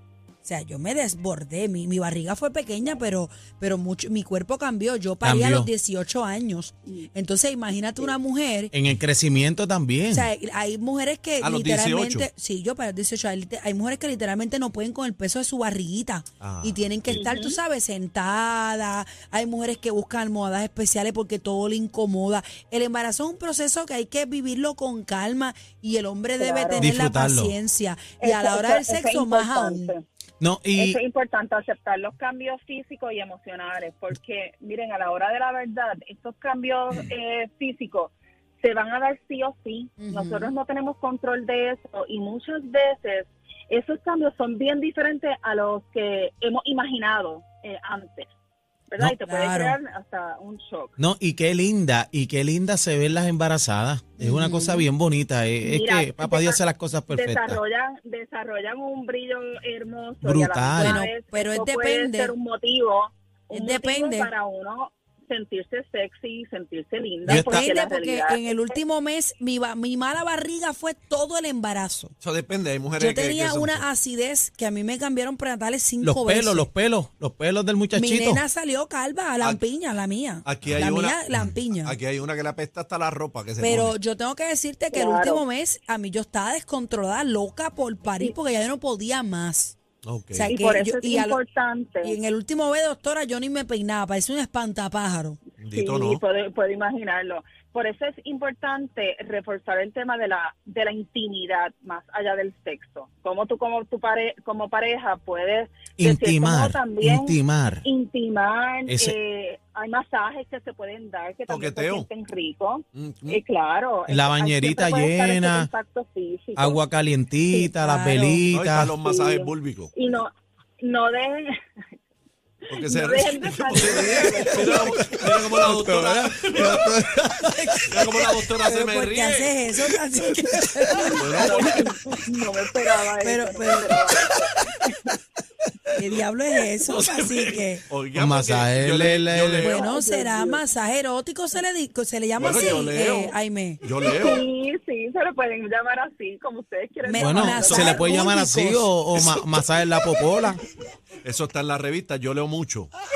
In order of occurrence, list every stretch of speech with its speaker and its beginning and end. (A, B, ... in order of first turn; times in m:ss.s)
0:00.4-0:08.7 A
0:05.2-0:05.7 B
0:08.7-0:10.3 B
0:10.1-0:29.9 A
0:11.4-0:12.3 C
0:16.4-0:17.3 C
0:17.1-0:17.6 D
0:26.4-0:26.9 D
0:26.8-0:27.6 B
0:28.2-0:30.0 D
0:30.4-0:31.0 B
0:30.8-0:48.3 D
0:40.0-0:40.5 A
0:48.9-0:51.0 D
0:49.2-0:49.8 A
0:51.0-0:57.6 B
0:54.2-0:54.9 A
0:55.6-1:08.6 D
1:00.2-1:01.0 B
1:00.8-1:02.3 A
1:03.5-1:04.3 A
1:07.3-1:07.7 B
1:07.3-1:12.1 A
1:12.2-1:13.8 C
1:13.0-1:16.7 A
1:16.0-1:18.4 B
1:18.0-1:22.0 A
1:20.4-1:24.0 C
1:23.6-1:29.8 A
1:24.9-1:25.4 D
1:30.0-1:30.5 C
1:30.3-1:31.4 A
1:30.4-1:32.2 D
1:32.0-1:35.4 A
1:35.6-1:36.2 C
1:35.7-1:56.8 D
1:46.0-1:47.8 B
1:48.9-1:49.2 B
1:51.5-1:52.1 C
1:53.0-1:53.4 C
1:54.1-1:55.7 B
1:56.6-1:58.9 B
1:57.5-1:57.7 D
1:57.8-1:58.4 A
1:58.5-1:59.9 C
1:59.0-2:01.5 D
2:02.7-2:05.2 D
2:02.7-2:06.9 C
2:04.6-2:08.2 B
2:07.6-2:11.5 A
2:07.9-2:09.6 C
2:10.9-2:15.0 D
2:11.2-2:11.8 C
2:13.2-2:13.9 A
2:15.9-2:17.8 A
2:16.8-2:19.8 C
2:18.2-2:19.8 B
2:19.6-2:23.8 A
2:19.6-2:20.6 D
2:22.4-2:24.4 C
2:24.0-2:28.4 D
2:27.0-2:28.9 A
2:27.2-2:30.6 B
2:29.2-2:29.4 C
2:31.2-2:32.9 C